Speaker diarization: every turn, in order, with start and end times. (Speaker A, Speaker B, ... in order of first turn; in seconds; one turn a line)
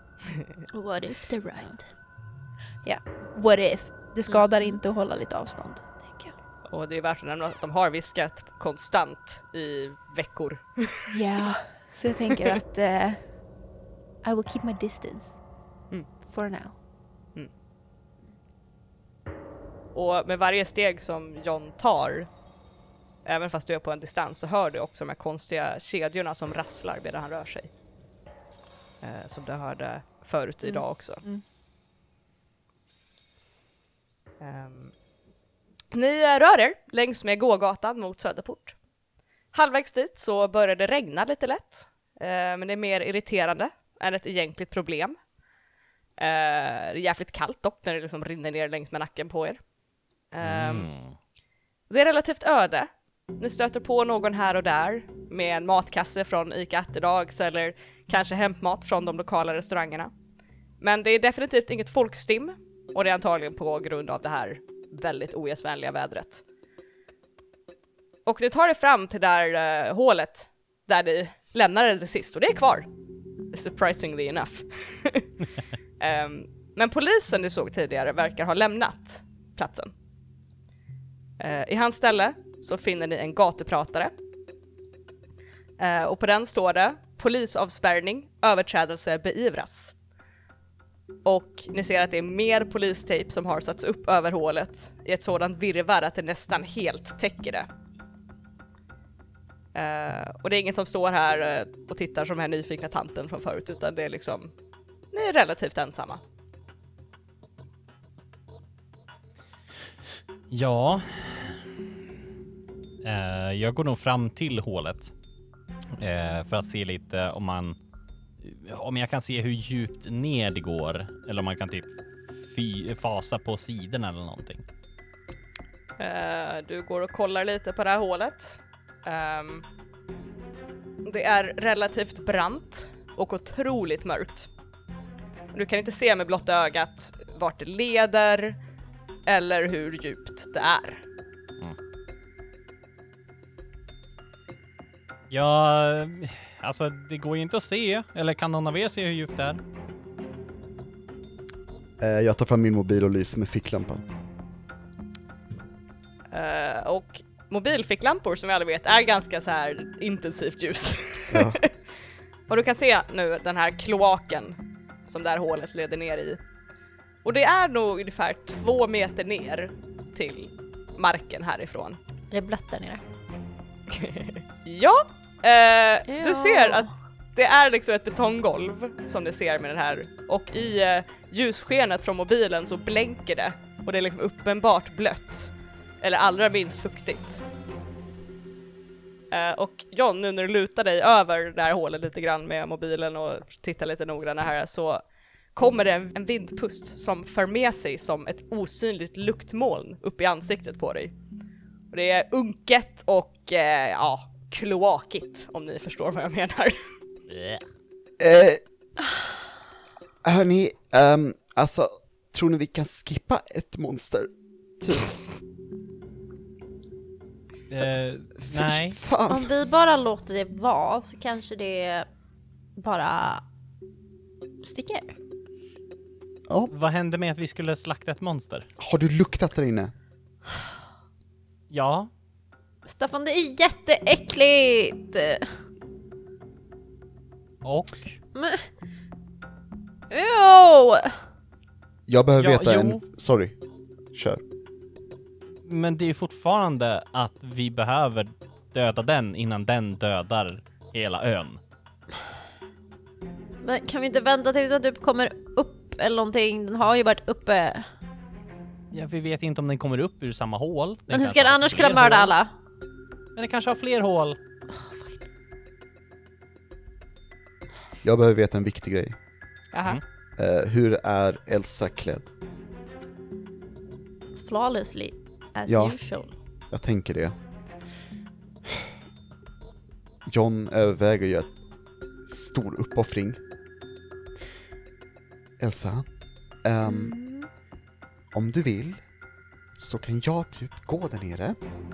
Speaker A: 0.7-1.8
Speaker B: 2.8-6.3
Speaker C: 6.7-11.1
Speaker B: 11.1-13.3
Speaker B: 14.2-15.4
Speaker B: 16.3-16.7
Speaker C: 19.9-22.3
Speaker C: 23.2-27.7
Speaker C: 29.0-31.2
Speaker B: 30.7-31.4
Speaker C: 34.4-34.9
Speaker C: 35.9-38.8
Speaker C: 39.5-45.2
Speaker C: 46.2-49.6
Speaker C: 50.3-50.9
Speaker D: 50.4-51.2
Speaker C: 51.9-60.1
Speaker C: 60.8-66.4
Speaker C: 68.3-72.9
Speaker C: 73.5-75.3
Speaker C: 76.0-79.9
Speaker C: 81.4-84.1
Speaker C: 85.8-90.0
Speaker C: 91.2-97.7
Speaker C: 99.8-104.5
Speaker C: 105.1-106.2
Speaker D: 110.5-111.6
Speaker D: 113.0-115.1
Speaker D: 116.0-117.8
Speaker D: 118.4-124.6
Speaker C: 126.0-129.7
Speaker C: 131.0-134.5
Speaker C: 135.5-138.6
Speaker C: 139.3-141.0
Speaker D: 145.3-149.6
Speaker E: 152.0-154.1
Speaker C: 156.3-161.7
Speaker E: 161.3-161.6
Speaker C: 162.5-166.4
Speaker C: 167.2-172.0
Speaker A: 172.3-173.0
Speaker C: 173.9-187.4
Speaker A: 176.1-176.9
Speaker C: 189.3-195.0
Speaker C: 195.6-201.1
Speaker C: 201.9-206.8
Speaker D: 207.3-207.6
Speaker E: 208.2-208.6
Speaker E: 210.2-215.2
Speaker D: 217.7-219.0
Speaker E: 218.4-219.5
Speaker A: 219.3-222.1
Speaker A: 222.8-223.4
Speaker A: 224.6-225.2
Speaker D: 226.7-228.7
Speaker E: 228.8-229.9
Speaker D: 231.7-232.1
Speaker A: 232.9-235.5
Speaker D: 237.6-238.2
Speaker A: 238.3-238.7
Speaker A: 240.1-241.2
Speaker E: 242.1-243.6
Speaker D: 242.4-243.0
Speaker E: 244.1-244.4
Speaker D: 245.7-251.6
Speaker A: 253.6-257.9
Speaker D: 258.9-262.3
Speaker A: 261.1-262.5
Speaker D: 263.4-264.4
Speaker A: 264.7-265.2
Speaker E: 268.0-269.2
Speaker C: 269.7-270.0
Speaker E: 270.4-272.3
Speaker A: 274.4-276.3
Speaker E: 275.7-276.0
Speaker E: 276.7-277.4
Speaker E: 280.3-281.5
Speaker E: 282.2-283.4
Speaker E: 285.6-286.1
Speaker E: 286.6-287.2
Speaker B: 286.9-287.4
Speaker E: 288.3-289.0
Speaker E: 289.8-291.6